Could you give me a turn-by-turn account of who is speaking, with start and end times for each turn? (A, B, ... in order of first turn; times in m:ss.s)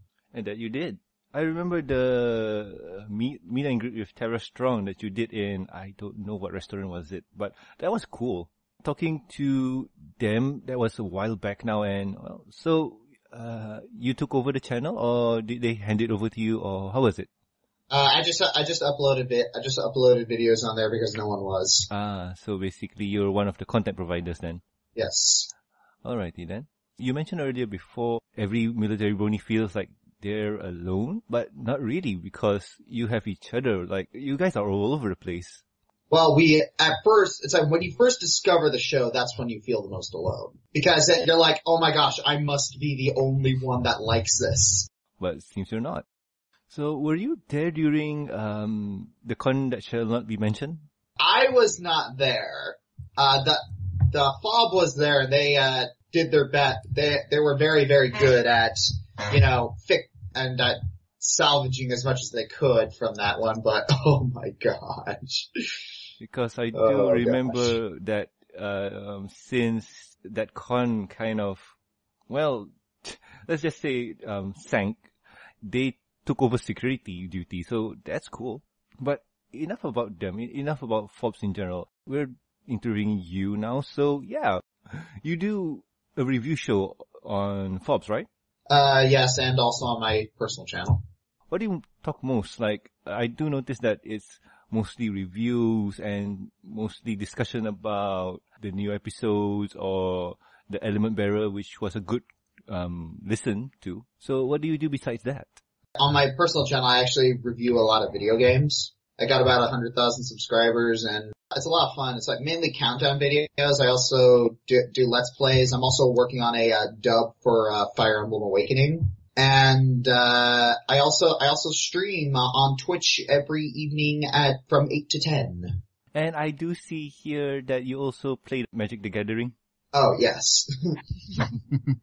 0:00.3-0:17.3 A
0:17.9-0:21.9 B
0:21.9-0:24.6 A
0:25.0-0:25.5 B
0:26.0-0:35.6 A
0:36.1-0:44.9 B
0:45.2-0:46.0 A
0:46.7-0:50.8 A
0:51.2-1:05.5 B
1:06.2-1:11.7 A
1:06.7-1:07.8 B
1:12.3-1:15.1 A
1:15.6-1:28.3 A
1:28.7-1:31.0 B
1:31.5-1:45.6 A
1:46.0-2:05.8 B
2:06.1-2:09.6 A
2:09.9-2:11.0 B